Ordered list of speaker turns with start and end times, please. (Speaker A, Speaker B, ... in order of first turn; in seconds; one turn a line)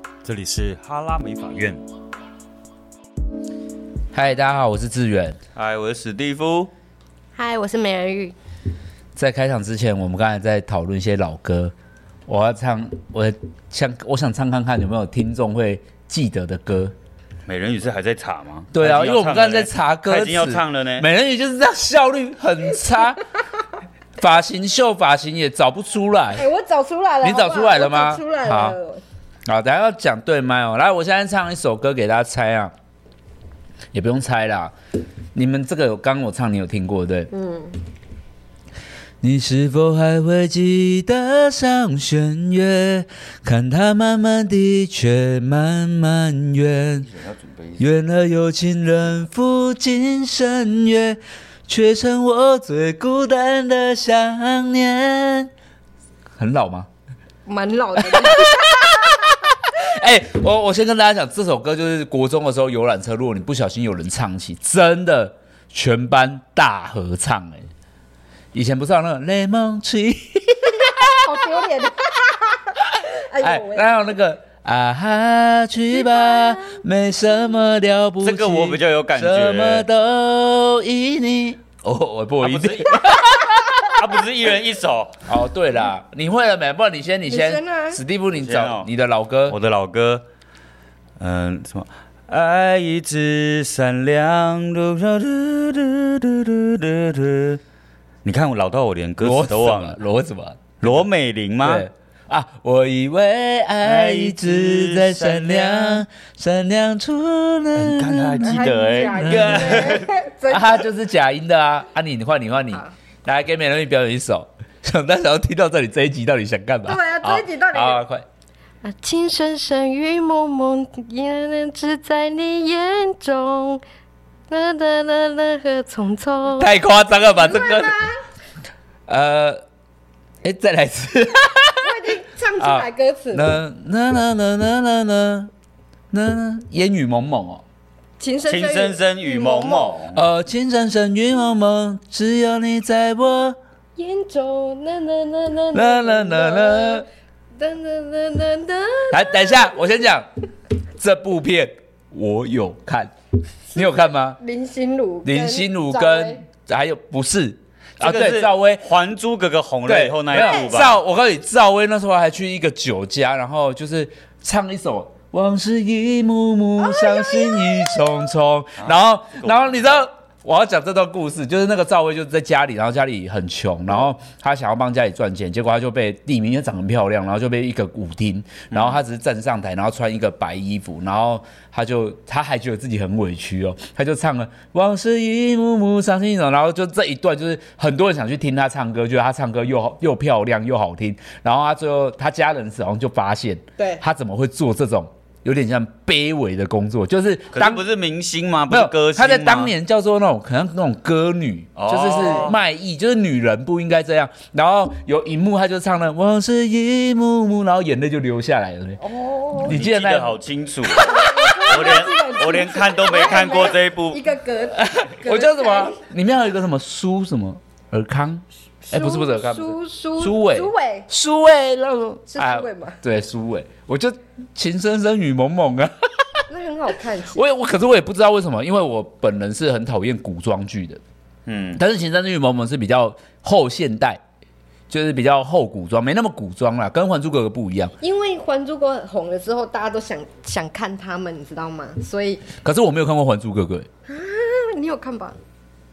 Speaker A: 0.2-1.8
Speaker B: 4.1-5.4
Speaker A: 5.5-6.7
Speaker C: 7.4-8.3
Speaker B: 9.2-11.7
Speaker B: 12.3-16.9
Speaker A: 17.5-21.1
Speaker B: 18.7-23.2
Speaker B: 24.2-26.5
Speaker C: 26.4-29.0
Speaker B: 27.2-28.8
Speaker B: 29.5-32.7
Speaker B: 33.9-34.7
Speaker B: 35.4-37.3
Speaker C: 37.3-37.8
Speaker B: 39.2-47.1
Speaker A: 47.0-47.8
Speaker B: 47.8-55.5
Speaker B: 56.4-56.9
Speaker C: 57.5-59.3
Speaker B: 58.0-67.7
Speaker B: 68.5-71.4
Speaker C: 71.1-74.1
Speaker B: 73.4-84.0
Speaker C: 75.9-76.8
Speaker A: 78.2-79.9
Speaker A: 82.4-83.1
Speaker A: 83.8-85.2
Speaker B: 85.3-89.6
Speaker C: 87.3-88.0
Speaker A: 88.3-88.9
Speaker A: 89.5-90.2
Speaker A: 91.2-97.6
Speaker A: 98.2-100.0
Speaker B: 99.2-101.0
Speaker A: 100.8-101.9
Speaker B: 101.6-118.2
Speaker A: 103.8-106.0
Speaker A: 107.8-110.1
Speaker C: 108.4-110.9
Speaker C: 116.9-118.0
Speaker C: 118.8-123.8
Speaker C: 124.5-128.2
Speaker B: 126.5-128.1
Speaker B: 129.1-129.6
Speaker B: 130.4-132.0
Speaker C: 131.8-133.5
Speaker B: 132.6-135.5
Speaker B: 136.1-137.6
Speaker C: 138.2-140.0
Speaker A: 138.5-140.2
Speaker B: 140.1-143.6
Speaker C: 144.0-147.1
Speaker B: 145.7-147.1
Speaker C: 147.6-149.8
Speaker B: 149.1-150.3
Speaker B: 151.0-153.1
Speaker B: 153.7-154.4
Speaker C: 153.8-156.4
Speaker B: 155.2-158.8
Speaker A: 158.0-161.0
Speaker B: 159.9-197.8
Speaker C: 167.2-167.6
Speaker A: 168.8-169.9
Speaker A: 178.7-179.0
Speaker A: 197.5-199.7
Speaker B: 198.7-209.0
Speaker A: 201.8-202.6
Speaker C: 202.2-202.5
Speaker C: 209.0-209.7
Speaker B: 209.6-212.1
Speaker A: 209.7-214.3
Speaker C: 211.0-216.0
Speaker B: 214.8-226.4
Speaker C: 218.9-221.1
Speaker C: 222.3-223.0
Speaker C: 226.5-227.4
Speaker B: 227.3-231.0
Speaker A: 231.5-231.8
Speaker B: 231.8-234.2
Speaker B: 234.9-237.9
Speaker C: 238.0-242.5
Speaker B: 242.6-243.9
Speaker C: 244.1-245.4